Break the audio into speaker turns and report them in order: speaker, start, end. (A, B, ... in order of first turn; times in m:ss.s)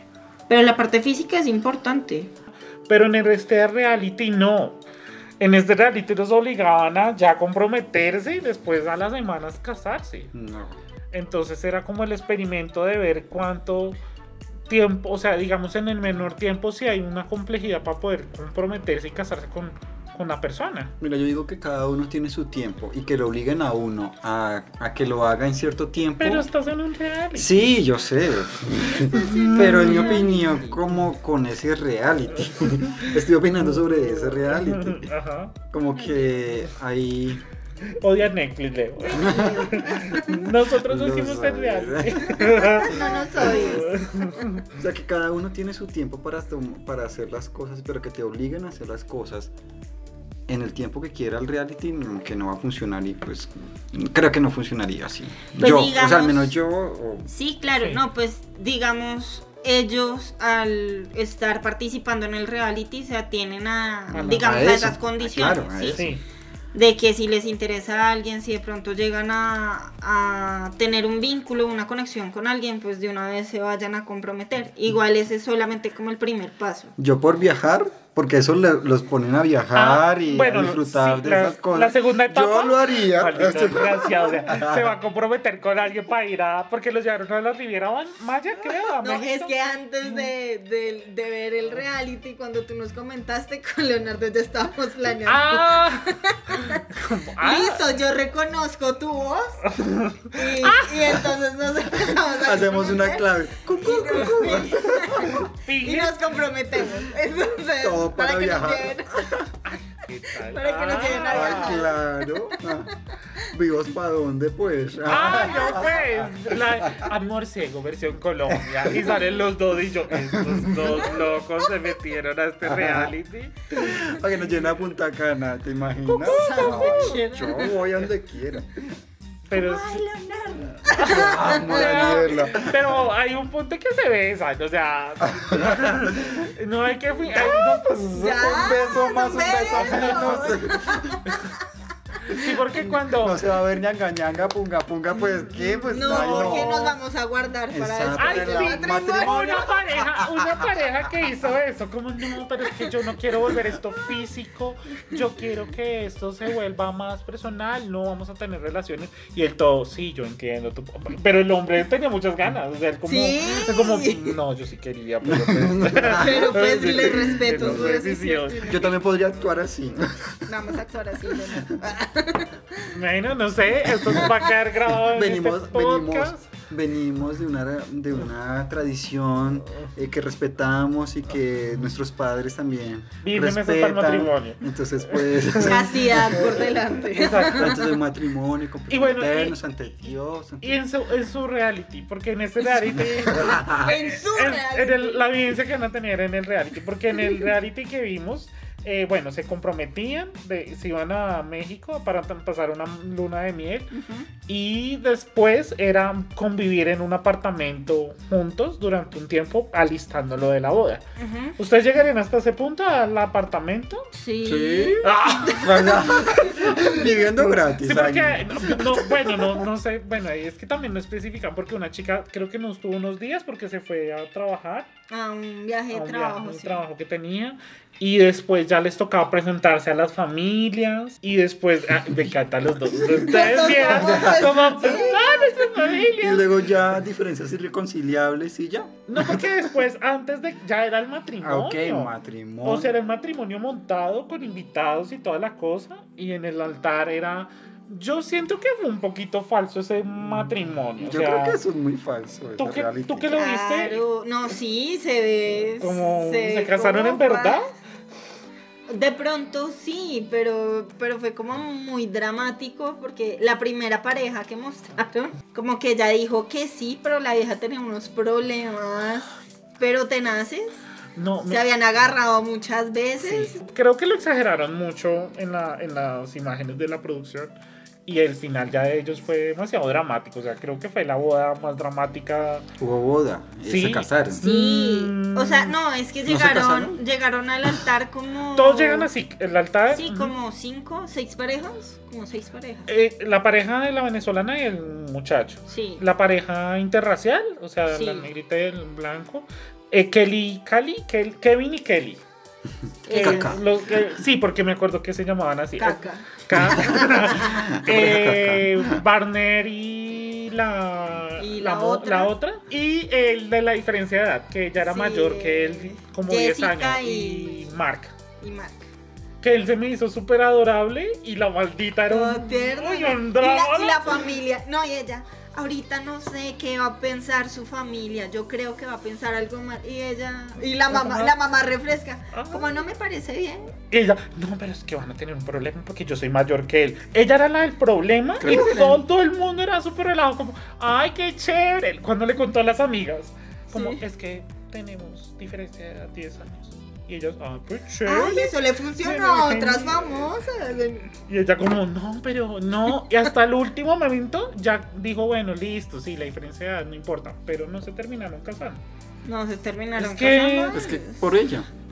0:00.5-0:02.3 A
0:02.9-0:04.8 B
0:05.4-0:10.3 B
0:10.3-0:10.8 C
0:11.1-0:14.0 B
0:14.7-0:20.9 B
0:21.0-0:26.5 C
0:26.2-0:27.7 B
0:27.3-0:35.1 C
0:29.0-0:30.8 A
0:29.1-0:30.3 B
0:32.4-0:35.6 B
0:35.7-0:37.4 C
0:37.9-0:44.6 B
0:39.0-0:40.4 A
0:39.2-0:40.2 C
0:40.7-0:43.9 C
0:42.7-0:44.3 A
0:44.7-0:49.5 C
0:50.5-0:57.3 C
0:55.6-0:56.5 A
0:57.3-1:06.1 A
1:04.1-1:06.1 C
1:04.1-1:04.6 B
1:05.8-1:06.2 B
1:06.7-1:16.9 A
1:17.0-1:24.9 C
1:19.7-1:29.5 B
1:29.0-1:36.9 A
1:30.0-1:30.3 B
1:35.2-1:37.8 B
1:37.4-1:49.4 A
1:39.6-1:41.0 B
1:42.1-1:45.5 C
1:45.6-1:46.2 B
1:47.8-1:49.5 C
1:49.6-1:51.8 B
1:50.3-1:53.4 A
1:51.3-1:52.9 C
1:53.4-1:57.1 C
1:55.0-2:03.6 B
1:55.5-1:55.9 A
1:58.6-1:59.0 C
2:00.1-2:01.1 C
2:02.6-2:03.1 C
2:03.7-2:09.0 C
2:06.0-2:07.8 A
2:06.2-2:07.6 B
2:09.5-2:10.0 B
2:09.5-2:12.4 A
2:10.8-2:18.6 B
2:11.0-2:13.0 C
2:15.2-2:16.5 C
2:17.3-2:21.3 A
2:17.5-2:21.2 C
2:19.8-2:20.4 B
2:21.2-2:21.6 B
2:22.2-2:23.4 B
2:22.3-2:26.9 C
2:25.6-2:26.9 B
2:25.9-2:29.7 A
2:27.7-2:30.8 C
2:28.1-2:49.0 B
2:43.0-2:44.4 A
2:45.2-2:48.0 C
2:46.0-2:48.9 A
2:48.6-2:50.5 C
2:50.4-2:52.9 A
2:51.5-2:51.9 C
2:52.9-2:56.5 B
2:55.0-3:06.8 C
3:03.2-3:07.7 B
3:05.6-3:07.8 A
3:07.5-3:10.8 C
3:08.9-3:09.6 B
3:10.6-3:23.9 B
3:13.2-3:13.9 C
3:13.6-3:15.3 A
3:23.9-3:24.3 A
3:24.5-3:31.0 B
3:31.2-3:31.6 A
3:31.6-3:34.1 B
3:34.1-3:36.6 A
3:34.4-3:39.6 C
3:35.0-3:37.0 B
3:37.8-3:44.9 B
3:45.1-3:46.8 A
3:45.9-3:56.5 B
3:53.0-3:53.2 C
3:53.1-3:55.6 A
3:53.9-3:54.5 C
3:56.2-3:59.5 C
3:59.1-4:02.1 B
4:01.4-4:02.9 C
4:02.6-4:11.6 B
4:11.0-4:13.3 C
4:12.6-4:14.0 B
4:13.3-4:17.6 A
4:15.8-4:17.7 B
4:18.9-4:30.8 A
4:31.2-4:31.6 B
4:31.5-4:33.6 A
4:33.2-4:37.5 B
4:38.0-4:42.7 B
4:42.8-4:44.4 C
4:43.6-4:45.8 B
4:44.3-4:49.1 A
4:46.3-4:47.0 C
4:48.5-4:50.3 B
4:49.9-4:52.9 A
4:52.9-5:02.2 B
4:55.7-4:56.0 A
4:57.9-4:58.3 A
5:03.1-5:03.6 A
5:03.1-5:18.1 B
5:03.1-5:03.6 C
5:05.8-5:07.6 A
5:06.5-5:09.0 C
5:11.4-5:12.3 A
5:14.8-5:17.7 A
5:18.4-5:18.8 A
5:19.4-5:24.3 B
5:22.1-5:33.7 A
5:30.9-5:31.3 B
5:32.3-5:32.9 B
5:33.9-5:50.3 B
5:38.4-5:39.0 A
5:38.4-5:38.7 C
5:43.7-5:44.0 A
5:48.0-5:51.1 A
5:51.2-5:58.8 B
5:59.2-6:01.2 A
6:00.0-6:00.8 B
6:00.7-6:01.7 C